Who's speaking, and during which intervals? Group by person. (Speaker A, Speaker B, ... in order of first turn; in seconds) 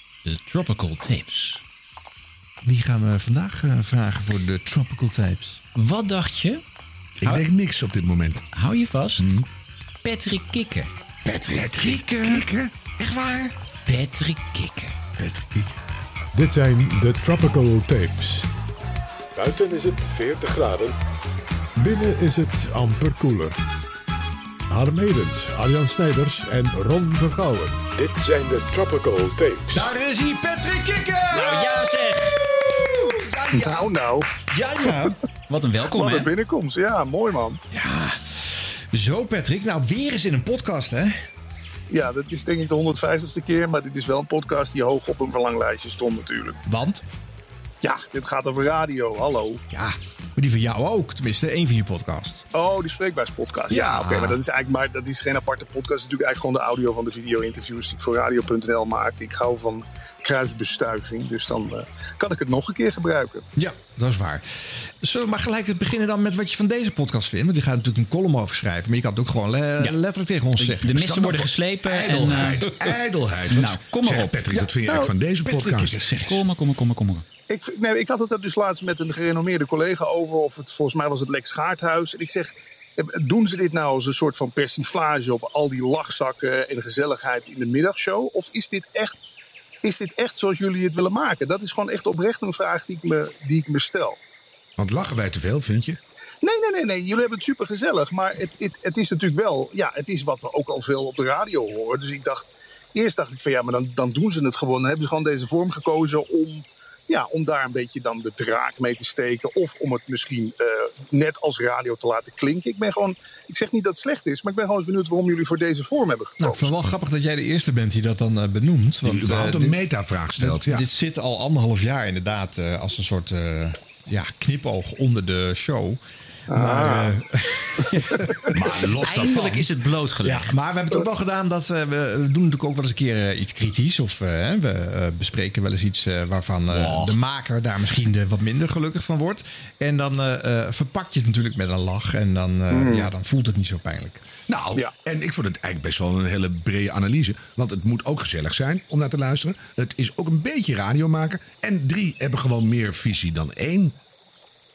Speaker A: 0.2-1.6, 5.8-6.6, 8.5-9.3, 10.0-10.9, 13.8-15.0, 31.3-32.5, 35.5-36.3, 70.6-72.7, 73.5-74.4, 76.2-77.2, 129.0-130.6
Speaker B: 2.6-5.6, 11.2-13.5, 15.1-15.8, 29.7-35.2, 37.7-41.1, 46.6-47.0, 49.7-52.4, 53.7-54.4, 63.5-71.0, 75.4-76.4, 116.4-119.8, 120.4-126.0, 126.5-128.6, 130.2-144.2
Speaker C: 7.2-8.5, 9.2-9.5, 11.5-12.7, 70.9-76.0, 94.8-96.0, 119.0-120.8, 128.5-129.7, 136.7-137.1, 144.5-153.9
Speaker D: 16.3-18.5, 19.4-20.9, 21.8-23.5, 24.7-29.9
Speaker E: 33.5-34.3, 35.9-37.6, 41.9-46.6, 47.8-49.6, 52.5-63.4, 74.5-75.1, 77.5-89.3, 89.8-94.2, 96.4-116.7, 126.5-127.2, 142.7-143.1